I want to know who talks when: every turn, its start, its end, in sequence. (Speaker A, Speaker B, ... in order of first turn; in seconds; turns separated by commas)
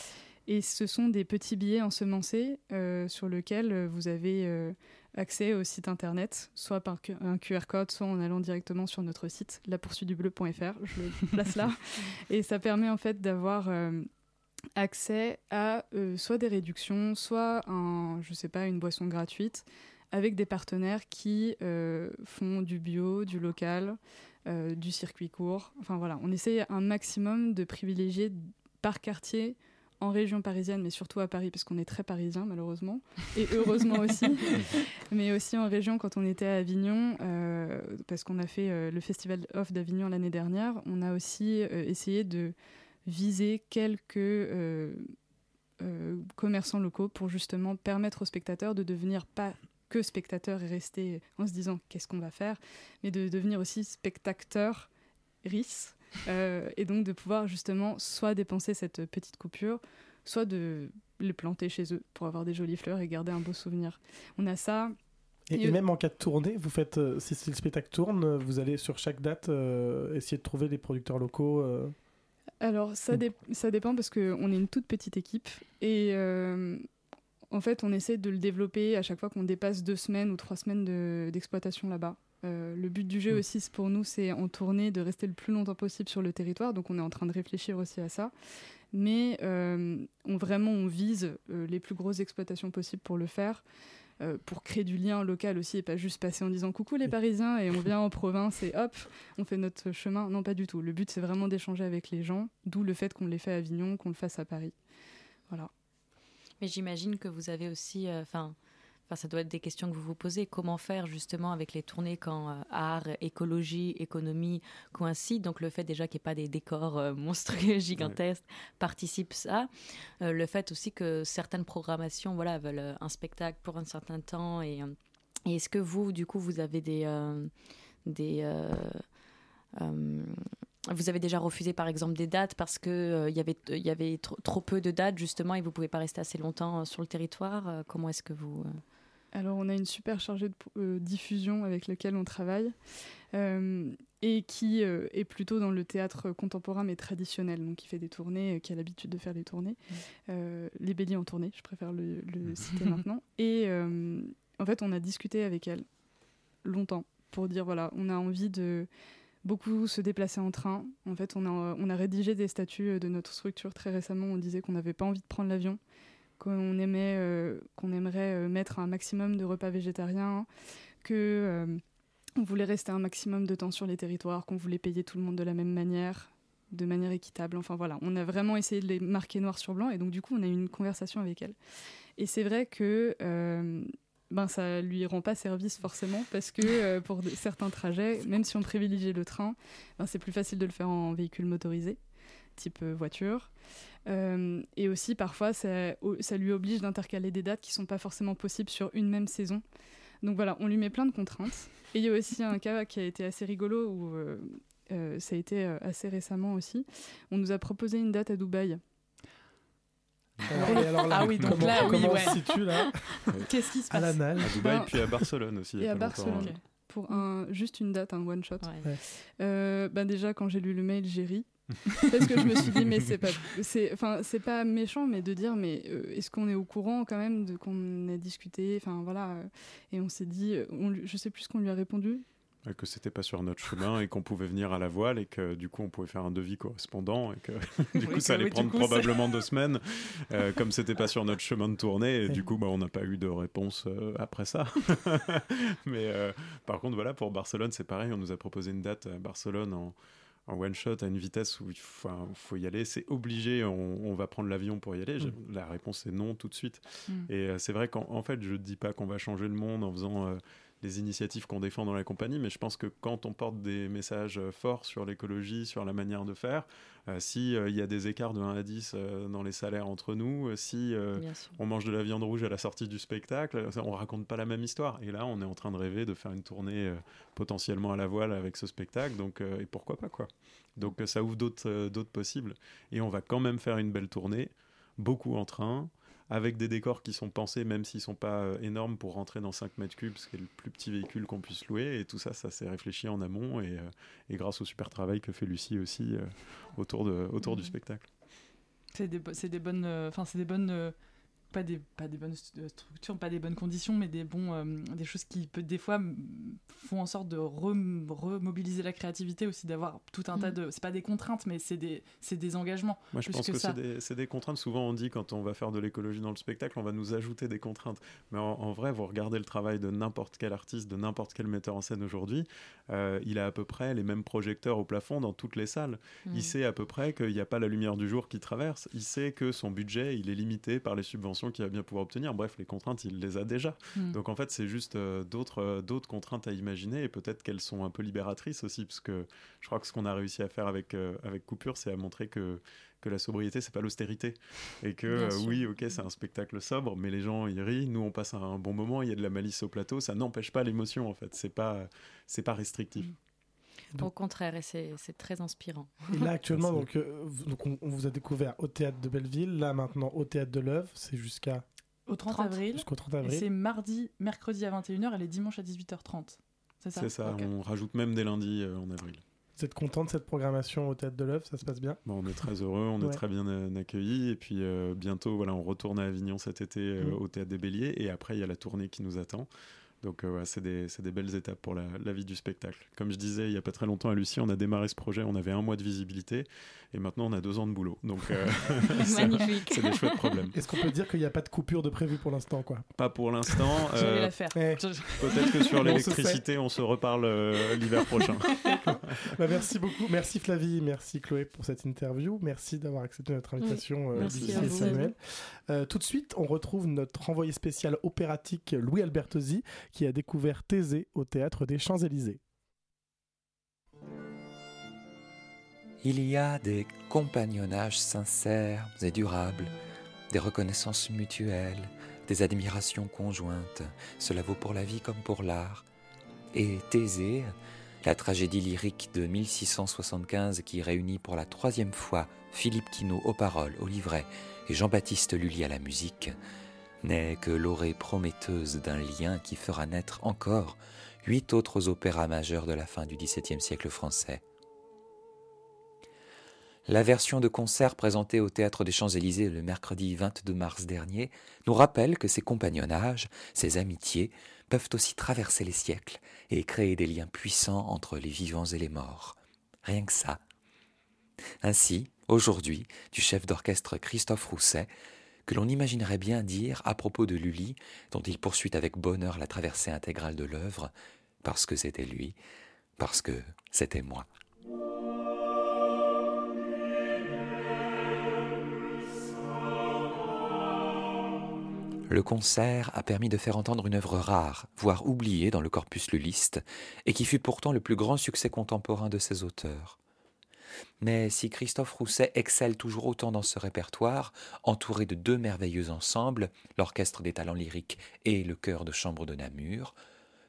Speaker A: 0.5-14.1, Speaker A: 14.8-45.1, Speaker A: 45.8-54.9, Speaker A: 55.4-65.0, Speaker B: 65.5-71.9, Speaker A: 65.5-65.8, Speaker A: 72.6-76.9, Speaker A: 77.5-88.3, Speaker A: 88.9-93.6, Speaker A: 94.2-104.7, Speaker C: 106.6-108.5, Speaker C: 109.1-119.7, Speaker C: 120.2-124.9, Speaker C: 125.5-127.5, Speaker C: 128.0-129.0, Speaker C: 129.8-130.4, Speaker C: 130.9-138.8, Speaker A: 139.3-142.8, Speaker A: 143.3-155.8, Speaker A: 156.6-158.9, Speaker A: 159.4-165.8, Speaker A: 166.4-170.5, Speaker A: 171.0-171.8, Speaker A: 172.4-181.6, Speaker A: 182.2-192.0, Speaker A: 192.6-193.5, Speaker A: 194.1-199.6, Speaker A: 200.2-208.8, Speaker B: 210.5-213.3, Speaker D: 210.5-212.4, Speaker E: 211.4-211.7, Speaker D: 213.4-214.2, Speaker B: 213.9-214.6, Speaker E: 214.4-216.5, Speaker A: 214.6-214.9, Speaker A: 215.8-232.2, Speaker D: 216.2-216.6, Speaker E: 232.7-298.1, Speaker D: 238.0-239.2, Speaker C: 271.2-271.6, Speaker D: 297.5-297.7, Speaker D: 298.9-300.9, Speaker D: 301.5-313.8, Speaker E: 313.1-353.1, Speaker C: 326.3-326.5, Speaker C: 345.1-345.7, Speaker C: 354.0-356.0, Speaker B: 356.1-361.6, Speaker E: 356.5-356.9, Speaker D: 362.1-367.5, Speaker B: 362.7-363.4, Speaker E: 366.9-369.2, Speaker B: 369.6-372.0, Speaker E: 372.1-379.5, Speaker E: 380.0-390.5, Speaker D: 389.0-389.6, Speaker B: 390.5-392.9, Speaker E: 392.9-394.3, Speaker D: 393.9-396.0, Speaker B: 394.5-396.4, Speaker E: 395.2-399.1, Speaker B: 398.9-412.4, Speaker C: 403.7-405.0, Speaker E: 404.2-404.9, Speaker F: 416.0-419.7, Speaker F: 420.3-425.8, Speaker F: 426.5-427.5, Speaker F: 428.0-436.3, Speaker F: 437.0-444.4, Speaker F: 446.9-460.4, Speaker F: 461.6-464.9, Speaker F: 465.4-470.9, Speaker F: 471.4-472.4, Speaker F: 473.0-474.3, Speaker F: 482.1-490.0, Speaker F: 491.0-500.0